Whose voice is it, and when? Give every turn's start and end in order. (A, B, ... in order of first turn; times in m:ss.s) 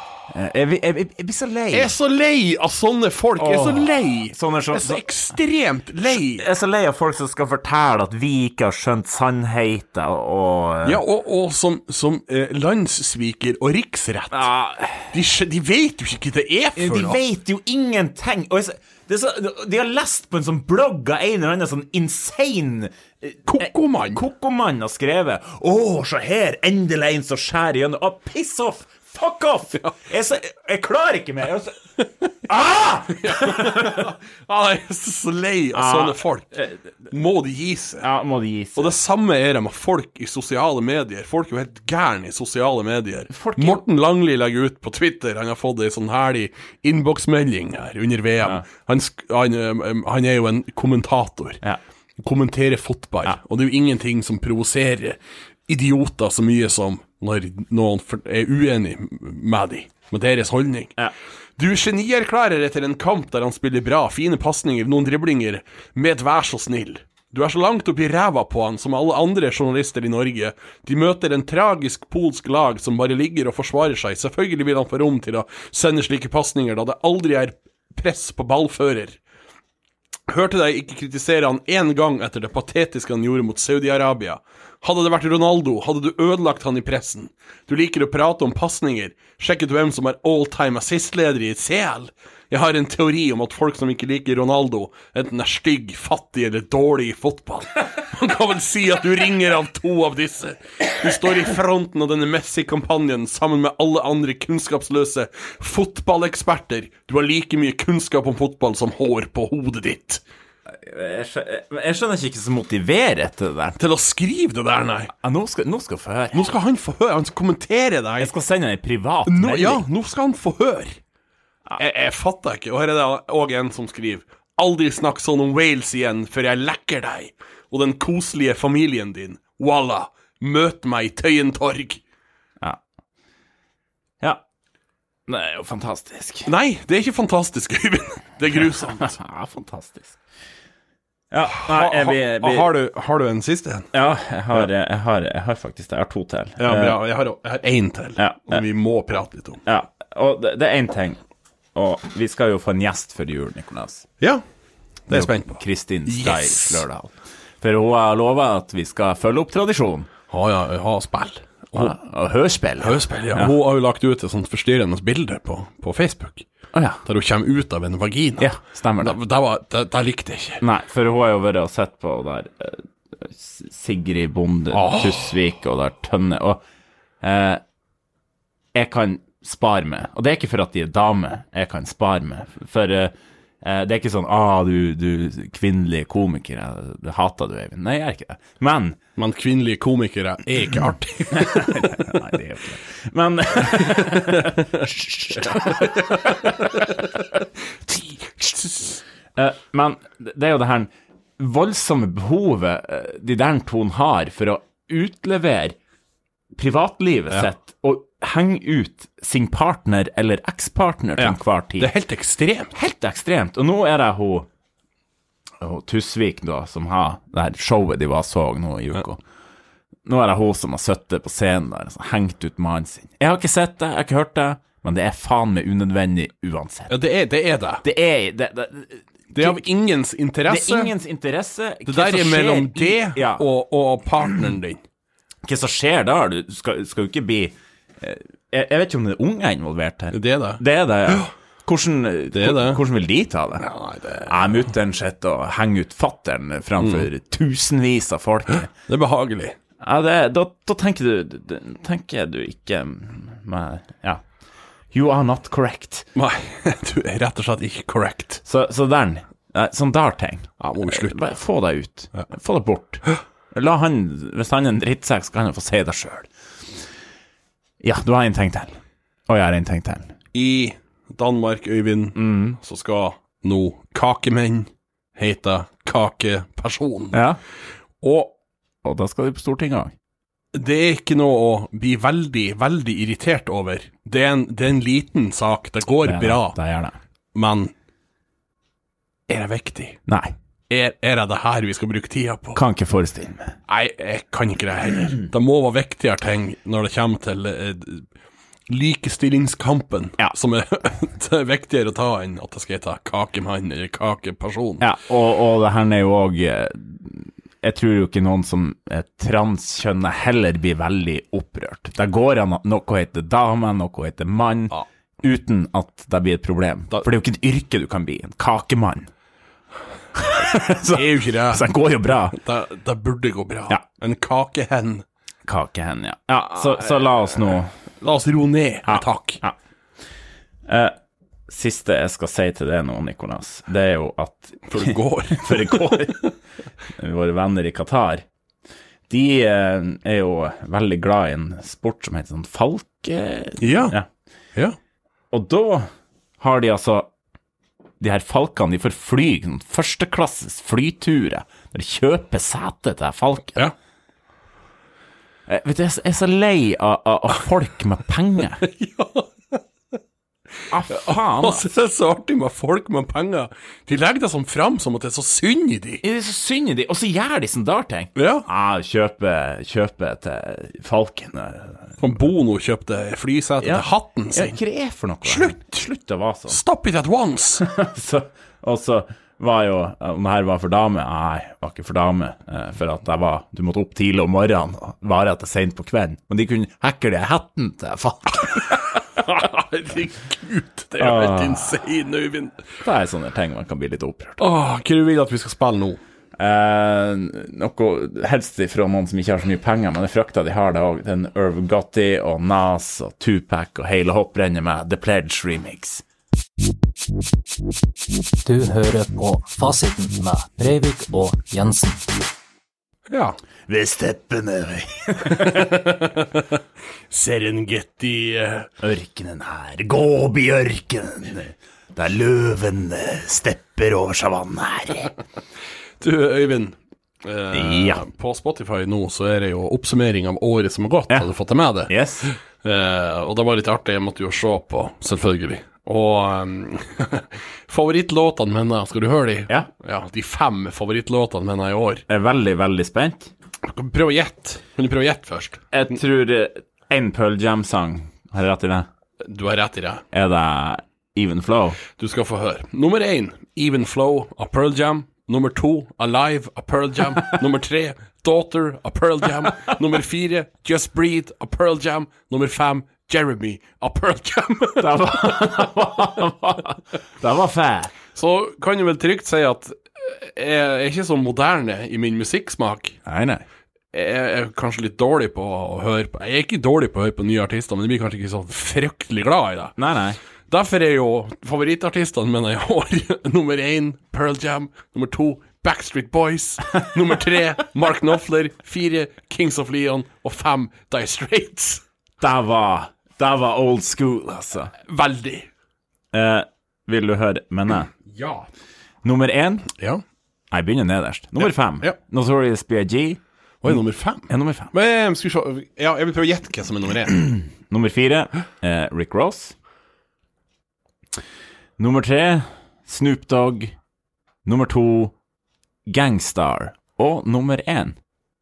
0:00.3-0:01.9 A
0:01.7-0:06.5 B
0:03.4-0:05.3 A
0:06.1-0:11.0 A
0:10.8-0:14.5 B
0:14.3-0:15.1 A
0:15.1-0:17.2 B
0:16.8-0:31.8 A
0:23.5-0:24.2 B
0:32.4-0:34.1 A
0:33.1-0:38.1 B
0:35.7-0:36.8 A
0:38.0-0:38.9 A
0:38.8-0:51.6 B
0:43.3-0:43.8 A
0:52.2-1:01.0 B
1:01.6-1:19.2 B
1:20.3-1:50.2 B
1:50.7-1:53.8 A
1:53.8-1:55.1 B
1:55.1-1:56.5 A
1:56.3-1:58.3 B
1:58.2-1:59.8 A
1:59.3-2:01.0 B
2:01.8-2:12.0 B
2:15.3-2:16.5 A
2:16.5-2:19.2 B
2:19.0-2:20.2 A
2:21.3-2:22.7 A
2:21.5-2:23.9 B
2:23.9-2:27.0 A
2:26.6-2:29.6 B
2:28.2-2:28.6 A
2:29.7-2:31.2 A
2:31.8-2:34.1 A
2:35.1-2:36.8 B
2:35.1-2:40.1 A
2:40.3-2:42.0 B
2:41.8-2:43.5 A
2:42.8-2:46.5 B
2:46.7-2:47.0 A
2:47.0-2:50.6 B
2:48.4-2:49.2 A
2:50.6-2:56.6 A
2:54.7-2:55.3 B
2:57.2-2:57.6 A
2:58.7-3:09.0 A
3:09.2-3:11.9 B
3:11.3-3:16.8 A
3:13.9-3:14.5 B
3:15.7-3:16.8 B
3:17.9-3:18.9 B
3:19.4-3:25.8 A
3:26.6-3:31.9 A
3:31.2-3:32.7 B
3:32.8-3:34.5 A
3:35.6-3:39.2 A
3:40.1-3:46.9 A
3:46.9-3:47.8 B
3:47.8-3:49.6 A
3:49.3-3:50.9 B
3:50.5-3:53.4 A
3:51.9-3:54.8 B
3:55.4-4:03.7 A
4:00.1-4:01.3 B
4:02.3-4:02.8 B
4:03.6-4:04.6 B
4:04.3-4:08.7 A
4:06.8-4:07.1 B
4:08.8-4:09.6 B
4:09.8-4:14.2 A
4:14.9-4:16.1 A
4:16.2-4:18.4 B
4:18.4-4:26.3 A
4:20.6-4:21.2 B
4:27.8-4:30.1 A
4:30.3-4:37.2 B
4:32.2-4:32.6 A
4:37.1-4:37.4 A
4:38.0-4:38.3 B
4:38.8-4:39.9 A
4:40.5-4:46.6 B
4:46.0-4:47.0 A
4:47.3-4:47.7 B
4:49.3-4:50.0 B
4:50.1-4:50.3 A
4:50.7-4:52.6 B
4:52.6-4:53.6 A
4:53.7-4:58.1 B
4:58.7-5:04.8 B
5:04.8-5:19.1 A
5:20.2-5:22.4 A
5:20.8-5:21.7 B
5:22.3-5:25.0 B
5:25.5-5:27.7 A
5:28.0-5:29.4 B
5:28.9-5:29.6 A
5:30.7-5:31.0 A
5:31.5-5:36.3 A
5:34.7-5:36.3 B
5:36.9-5:38.2 A
5:39.1-5:44.1 A
5:43.6-5:44.0 B
5:45.3-5:47.1 A
5:48.0-5:53.6 A
5:55.5-5:58.6 A
5:58.6-5:59.6 B
6:00.7-6:01.6 A
6:00.9-6:06.0 B
6:06.0-6:12.0 A
6:08.2-6:08.5 B
6:12.0-6:14.6 B
6:13.6-6:16.6 A
6:15.2-6:15.9 B
6:16.5-6:17.6 B
6:17.6-6:29.0 A
6:29.2-6:32.7 B
6:31.0-6:31.7 A
6:32.8-6:34.4 A
6:34.4-6:36.0 B
6:36.4-6:46.0 A
6:48.4-6:52.1 C
6:53.1-6:53.4 B
6:53.7-6:55.7 A
6:55.3-6:56.5 B
6:57.1-6:58.7 B
6:58.8-7:05.1 A
7:06.0-7:22.1 B
7:07.5-7:08.0 A
7:11.9-7:12.3 A
7:22.1-7:23.3 A
7:23.7-7:25.6 B
7:25.7-7:28.9 A
7:29.2-7:30.0 B
7:30.1-7:31.8 A
7:32.0-7:45.5 B
7:44.8-7:47.9 A
7:48.1-7:53.0 B
7:53.1-7:53.4 A
7:53.9-7:59.8 B
7:59.8-8:00.2 A
8:00.5-8:11.8 B
8:12.2-8:14.7 A
8:14.9-8:15.5 B
8:16.1-8:17.9 A
8:18.1-8:18.5 B
8:19.0-8:19.7 A
8:19.8-8:20.0 B
8:20.5-8:24.7 A
8:23.6-8:27.2 B
8:27.2-8:29.6 A
8:31.8-8:33.8 A
8:34.4-8:35.1 A
8:35.9-8:38.0 A